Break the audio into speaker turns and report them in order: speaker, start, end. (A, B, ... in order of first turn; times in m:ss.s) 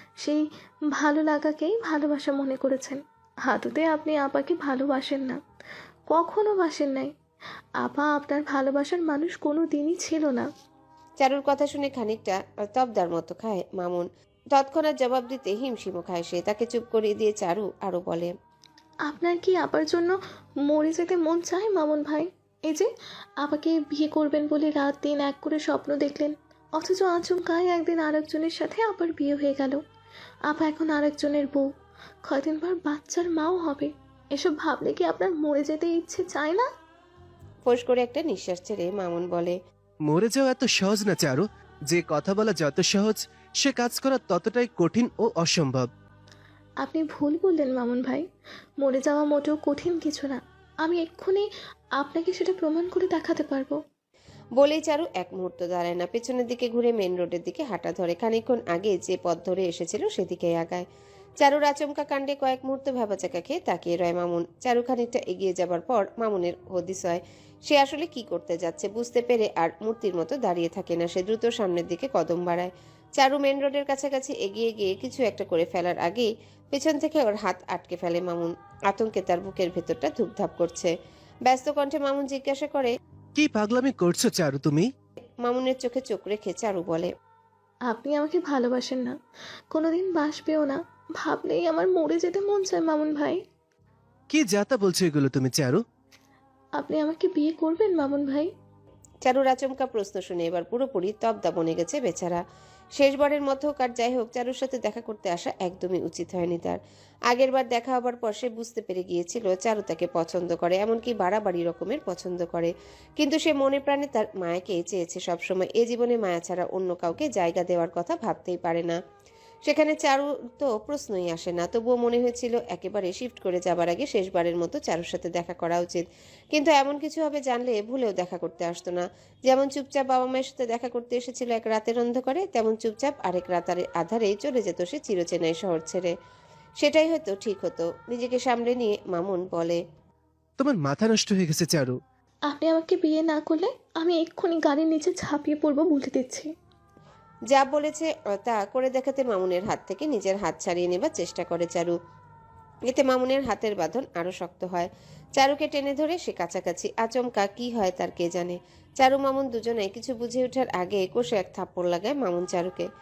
0:00.2-0:05.4 A
0:06.1-0:07.1 A
0:07.8-0:10.5 A
0:11.2-0:18.3 B
0:19.1-0:22.9 A
0:23.4-0:29.8 A
0:30.5-0:31.7 A
0:32.2-0:36.6 A
0:37.7-0:39.6 B
0:40.1-0:45.9 C
0:46.8-0:48.2 A
0:48.8-0:51.5 A
0:52.0-0:53.8 A
0:54.6-1:00.8 B
1:01.4-1:20.9 B
1:21.5-1:22.9 B
1:23.4-1:24.9 C
1:25.4-1:27.1 B
1:27.9-1:29.1 A
1:29.7-1:33.4 A
1:34.3-1:35.8 C
1:36.8-1:38.5 A
1:39.2-1:42.4 B
1:43.0-1:46.8 B
1:47.3-1:59.0 B
1:59.6-2:16.1 B
2:16.8-2:19.8 B
2:20.6-2:22.0 C
2:22.5-2:26.5 A
2:27.5-2:31.9 B
2:32.9-2:42.8 B